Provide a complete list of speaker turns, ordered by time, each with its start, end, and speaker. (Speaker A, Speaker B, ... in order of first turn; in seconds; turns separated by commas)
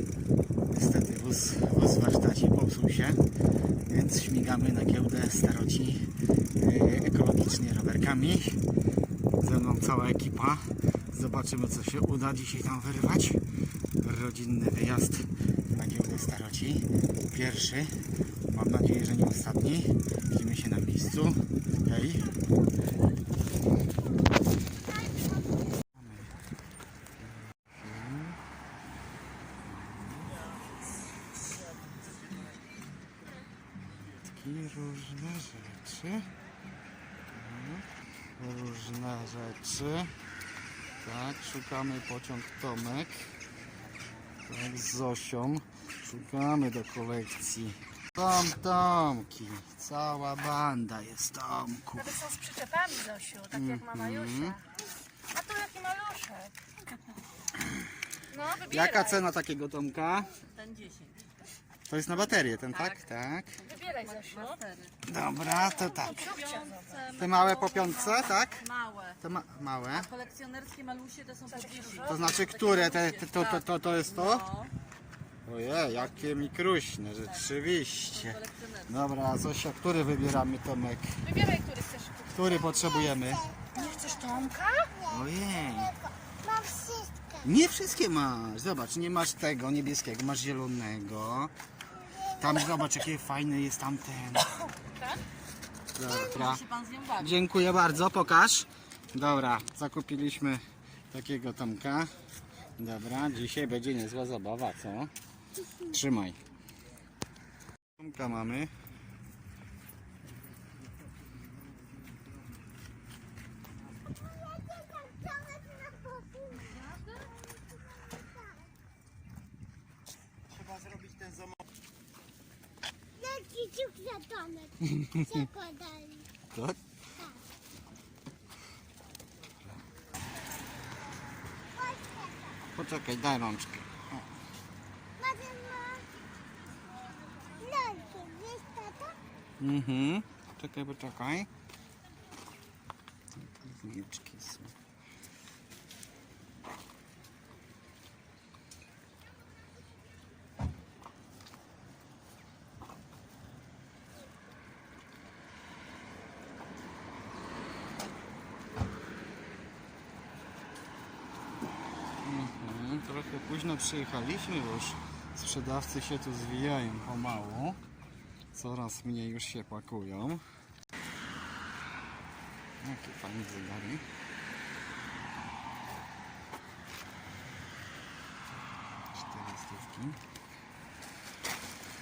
Speaker A: 0.7-3.3, Speaker A: 3.9-8.6, Speaker A: 9.3-13.4, Speaker A: 14.0-22.3, Speaker A: 26.0-26.3, Speaker A: 27.5-28.4, Speaker A: 29.6-30.4, Speaker A: 33.9-36.3, Speaker A: 37.3-37.9, Speaker A: 38.4-40.1, Speaker A: 41.0-43.3, Speaker A: 44.4-52.3, Speaker B: 52.1-54.6, Speaker A: 53.5-54.6, Speaker B: 55.3-56.5, Speaker B: 58.3-59.0, Speaker A: 58.7-60.3, Speaker C: 60.7-61.1, Speaker A: 61.9-63.6, Speaker B: 63.7-64.6, Speaker C: 64.0-64.9, Speaker A: 65.0-66.4, Speaker B: 66.0-67.0, Speaker C: 66.5-67.9, Speaker A: 67.1-68.7, Speaker C: 68.7-69.1, Speaker A: 69.2-70.1, Speaker C: 70.1-73.4, Speaker B: 71.5-72.0, Speaker A: 72.0-74.5, Speaker C: 74.2-74.7, Speaker A: 75.4-81.2, Speaker C: 78.4-78.7, Speaker B: 81.2-82.3, Speaker A: 82.3-83.5, Speaker D: 83.2-84.3, Speaker B: 83.7-84.9, Speaker A: 85.0-85.9, Speaker D: 86.2-87.4, Speaker A: 87.4-91.5, Speaker A: 92.3-94.6, Speaker A: 96.0-102.1, Speaker C: 96.4-97.2, Speaker A: 102.8-105.1, Speaker A: 105.8-106.4, Speaker A: 108.0-108.7, Speaker D: 114.0-118.7, Speaker D: 123.2-124.8, Speaker A: 124.8-125.5, Speaker D: 125.3-126.3, Speaker A: 126.5-126.8, Speaker D: 131.7-132.6, Speaker A: 132.7-134.2, Speaker D: 135.2-136.2, Speaker D: 137.4-139.2, Speaker A: 139.6-141.5, Speaker A: 143.4-144.7, Speaker A: 162.2-167.8, Speaker A: 168.5-170.4, Speaker A: 172.8-174.0, Speaker A: 179.1-180.2